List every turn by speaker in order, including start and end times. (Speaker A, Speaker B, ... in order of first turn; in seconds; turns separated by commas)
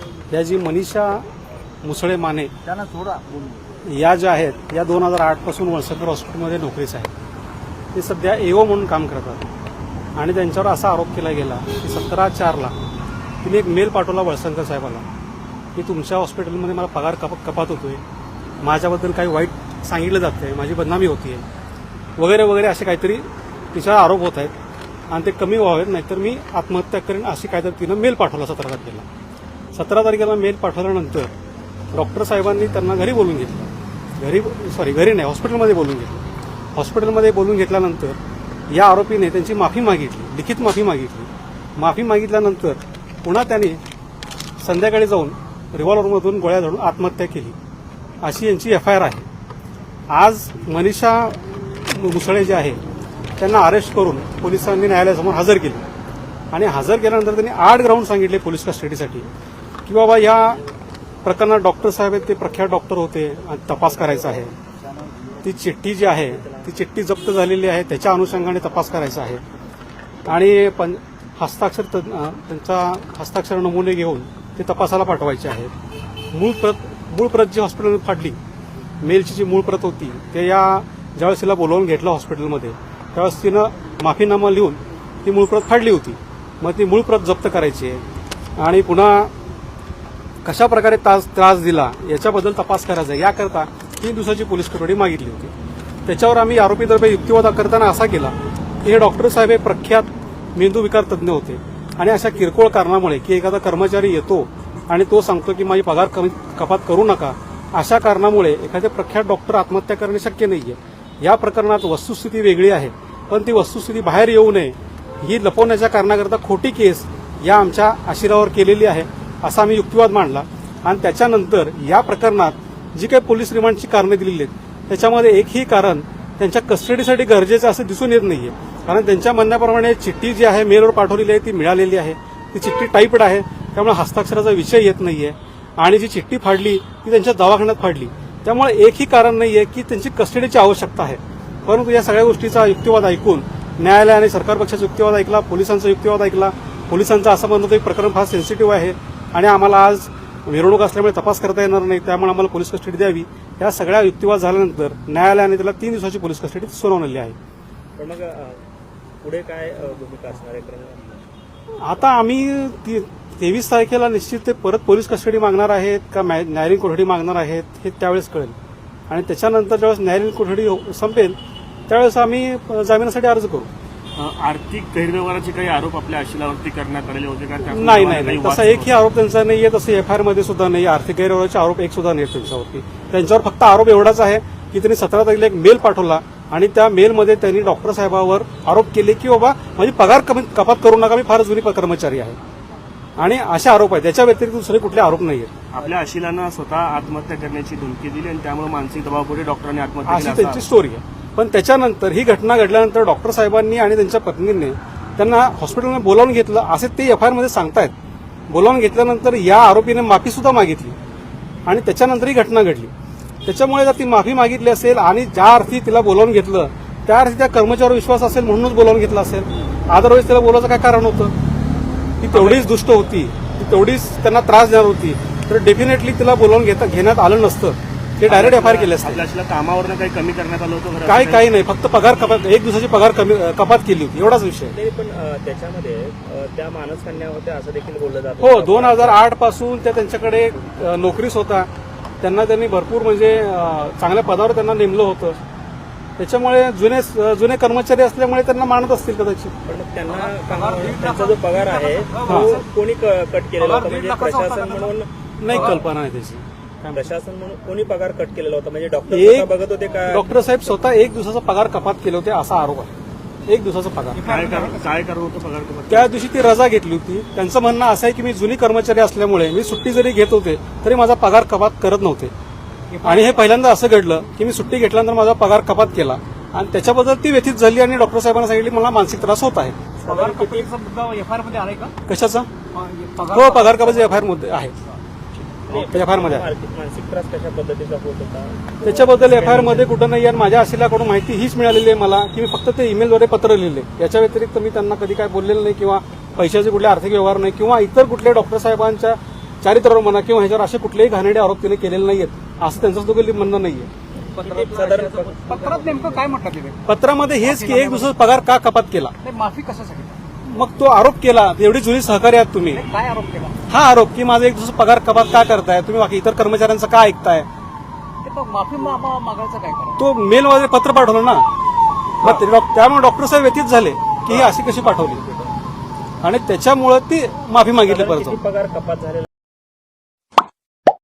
Speaker A: 0.3-1.2, Speaker A: 1.8-2.5, Speaker B: 2.7-3.5, Speaker A: 3.8-7.1, Speaker A: 7.9-9.5, Speaker A: 10.2-12.7, Speaker A: 13.4-15.0, Speaker A: 15.7-18.0, Speaker A: 18.6-21.4, Speaker A: 22.2-24.5, Speaker A: 25.1-29.0, Speaker A: 29.7-31.3, Speaker A: 31.9-36.2, Speaker A: 36.8-38.2, Speaker A: 38.7-43.8, Speaker A: 44.6-47.5, Speaker A: 48.2-49.2, Speaker A: 50.1-52.8, Speaker A: 53.4-55.8, Speaker A: 56.5-59.3, Speaker A: 59.9-60.6, Speaker A: 61.2-64.5, Speaker A: 65.4-69.4, Speaker A: 70.3-75.7, Speaker A: 76.3-78.4, Speaker A: 79.0-88.0, Speaker A: 88.6-89.3, Speaker A: 90.4-95.5, Speaker A: 96.0-157.3, Speaker C: 157.9-158.6, Speaker C: 159.2-161.2, Speaker A: 161.8-168.5, Speaker A: 169.1-171.4, Speaker A: 171.9-173.7, Speaker D: 174.2-178.9, Speaker A: 177.7-192.4, Speaker A: 193.2-195.5, Speaker D: 195.7-200.6, Speaker A: 200.0-207.9, Speaker A: 208.5-211.0, Speaker A: 211.7-212.9, Speaker A: 213.4-221.3, Speaker A: 222.2-229.2, Speaker D: 222.3-222.7, Speaker D: 228.2-231.5, Speaker A: 231.0-234.7, Speaker C: 234.7-239.2, Speaker A: 238.4-241.7, Speaker A: 242.2-245.4, Speaker A: 246.2-249.5, Speaker C: 249.6-255.7, Speaker B: 250.1-252.7, Speaker A: 252.2-252.5, Speaker B: 253.6-254.9, Speaker A: 255.4-257.0, Speaker B: 255.5-255.8, Speaker C: 256.9-260.7, Speaker A: 259.1-259.5, Speaker A: 260.1-262.9, Speaker A: 263.4-264.2, Speaker B: 264.1-264.9, Speaker D: 264.3-266.1, Speaker A: 265.9-272.3, Speaker B: 272.9-273.5, Speaker A: 273.0-279.9, Speaker B: 280.0-281.9, Speaker C: 280.1-280.7, Speaker A: 282.1-282.5, Speaker B: 282.7-284.2, Speaker A: 283.3-284.7, Speaker C: 285.7-289.9, Speaker A: 285.7-286.5, Speaker A: 288.8-303.9, Speaker C: 304.2-306.2, Speaker B: 304.4-306.8, Speaker A: 306.9-309.1, Speaker B: 307.4-308.1, Speaker B: 309.2-310.2, Speaker A: 310.5-312.8, Speaker B: 312.7-313.6, Speaker A: 313.7-317.5, Speaker B: 318.2-320.0, Speaker A: 320.0-321.4, Speaker A: 322.2-325.2, Speaker C: 324.3-325.5, Speaker A: 326.2-328.4, Speaker C: 327.8-329.2